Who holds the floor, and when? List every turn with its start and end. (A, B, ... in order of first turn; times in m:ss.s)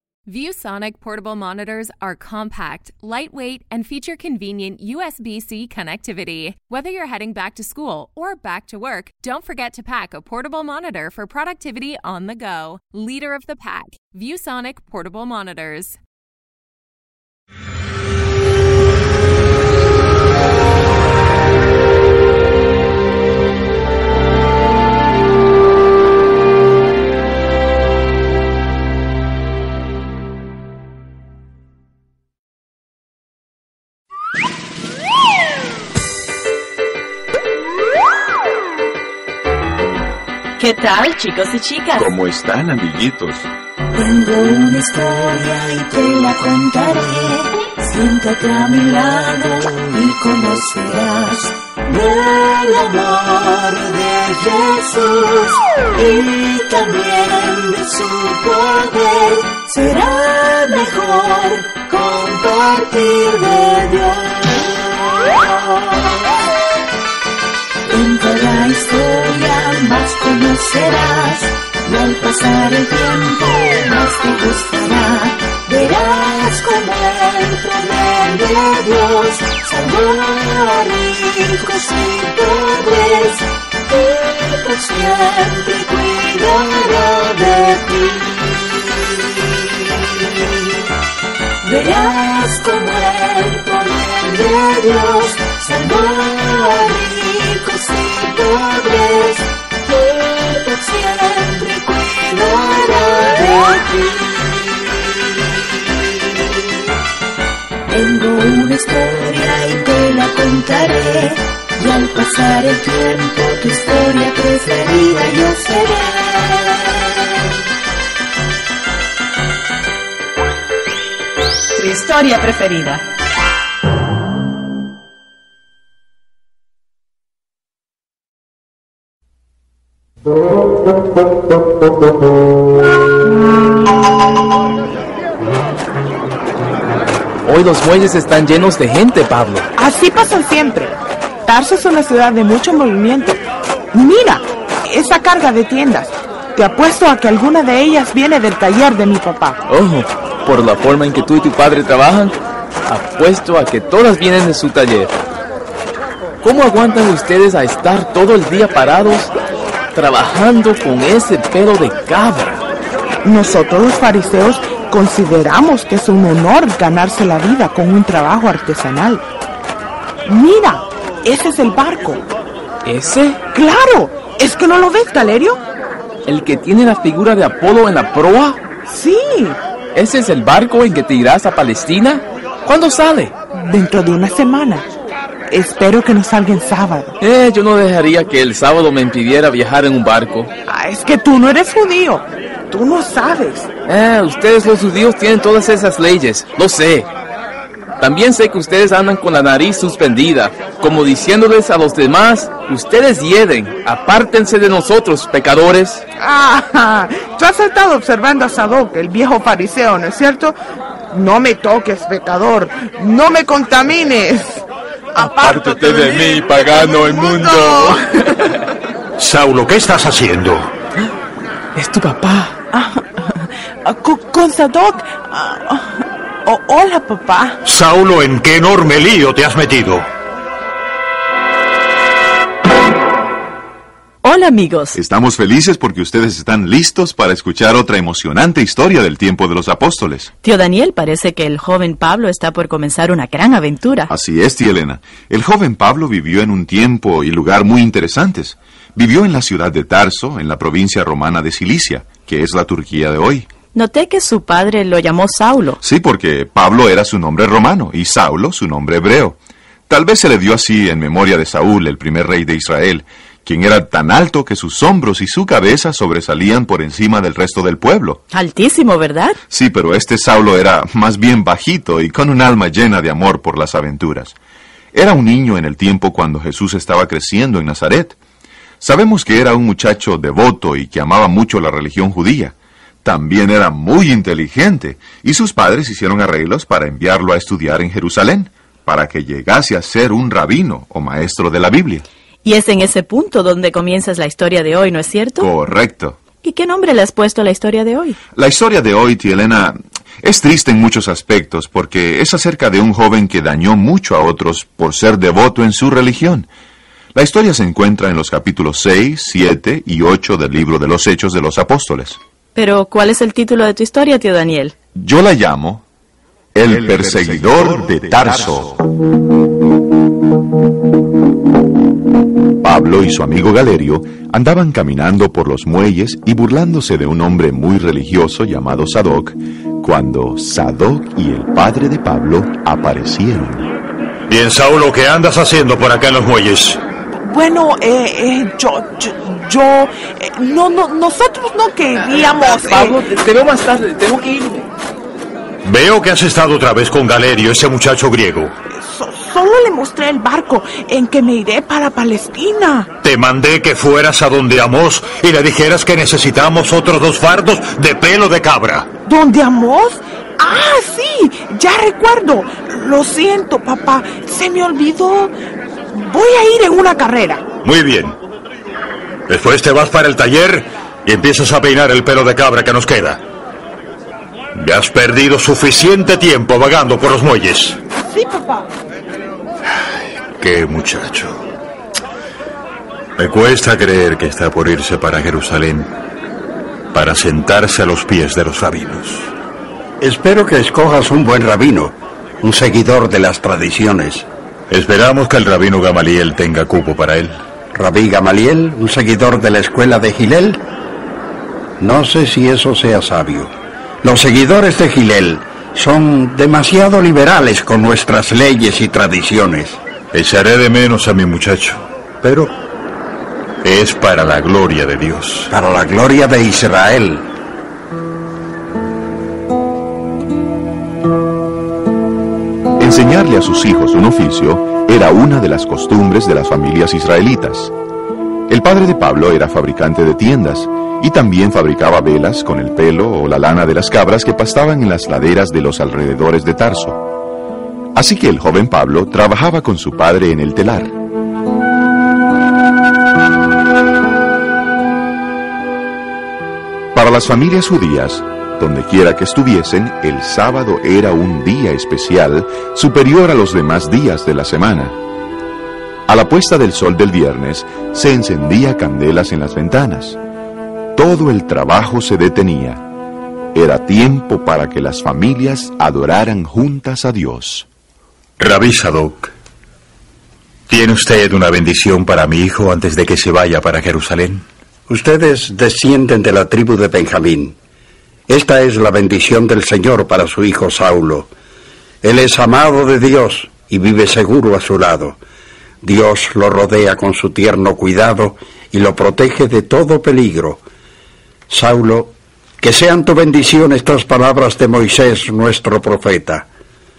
0:00.3-0:16.0 A
0:40.6-0:42.1 B
0:42.0-0:43.5 C
0:43.9-1:06.3 D
1:07.9-1:30.8 D
1:31.6-1:45.6 D
1:47.9-1:57.2 D
2:01.7-2:03.0 B
2:17.4-2:19.7 E
2:19.8-2:23.4 F
2:23.9-2:29.6 F
2:29.7-2:35.1 E
2:36.4-2:39.3 E
2:39.9-2:42.6 E
2:43.2-2:49.2 F
2:50.2-2:52.2 F
2:52.8-2:53.4 E
2:53.5-2:55.6 F
2:56.2-2:58.6 E
2:58.9-2:59.6 F
2:59.9-3:03.3 E
3:03.5-3:04.9 F
3:05.5-3:07.2 F
3:07.2-3:10.5 E
3:10.7-3:13.7 F
3:13.9-3:17.1 E
3:18.0-3:26.0 E
3:26.2-3:30.6 F
3:31.1-3:38.0 F
3:35.2-3:37.7 E
3:37.1-3:37.6 G
3:39.2-3:40.7 G
3:41.8-3:42.6 E
3:42.7-3:47.6 F
3:47.6-3:50.1 G
3:54.2-3:55.0 B
3:54.9-4:00.3 C
4:00.4-4:04.1 B
4:04.1-4:13.5 C
4:13.7-4:15.8 B
4:15.8-4:19.4 C
4:19.9-4:28.2 C
4:28.3-4:29.4 B
4:29.5-4:34.4 C
4:34.9-4:38.2 C
4:38.8-4:52.0 C
4:52.4-4:55.5 B
4:55.4-4:56.2 C
4:56.4-4:58.2 B
4:58.3-5:06.5 C
5:07.1-5:12.2 C
5:12.6-5:14.8 B
5:14.9-5:15.8 C
5:16.5-5:18.8 C
5:17.0-5:17.4 G
5:22.6-5:33.7 C
5:34.3-5:36.8 G
5:37.2-5:43.0 F
5:42.2-5:44.7 E
5:45.6-5:48.5 G
5:48.7-5:52.9 F
5:53.0-5:58.9 G
5:59.0-6:05.3 F
6:05.9-6:07.4 F
6:07.6-6:08.2 G
6:09.3-6:13.2 G
6:14.5-6:17.8 G
6:18.1-6:18.7 F
6:20.3-6:21.4 G
6:23.2-6:25.9 G
6:26.9-6:29.3 G
6:30.0-6:34.3 H
6:34.7-6:37.4 G
6:37.7-6:40.6 H
6:41.8-6:49.8 H
6:50.1-6:52.5 G
6:53.6-6:55.5 G
6:55.5-6:57.3 H
7:02.8-7:07.7 C
7:08.5-7:17.1 C
7:17.9-7:21.0 C
7:26.9-7:35.0 C
7:36.1-7:40.2 C
7:40.9-7:42.8 C
7:43.5-7:47.7 C
7:48.4-7:49.3 G
7:50.7-7:54.4 G
7:54.9-7:57.6 H
7:58.3-8:01.3 H
8:02.0-8:05.2 H
8:05.8-8:10.6 H
8:11.5-8:16.5 H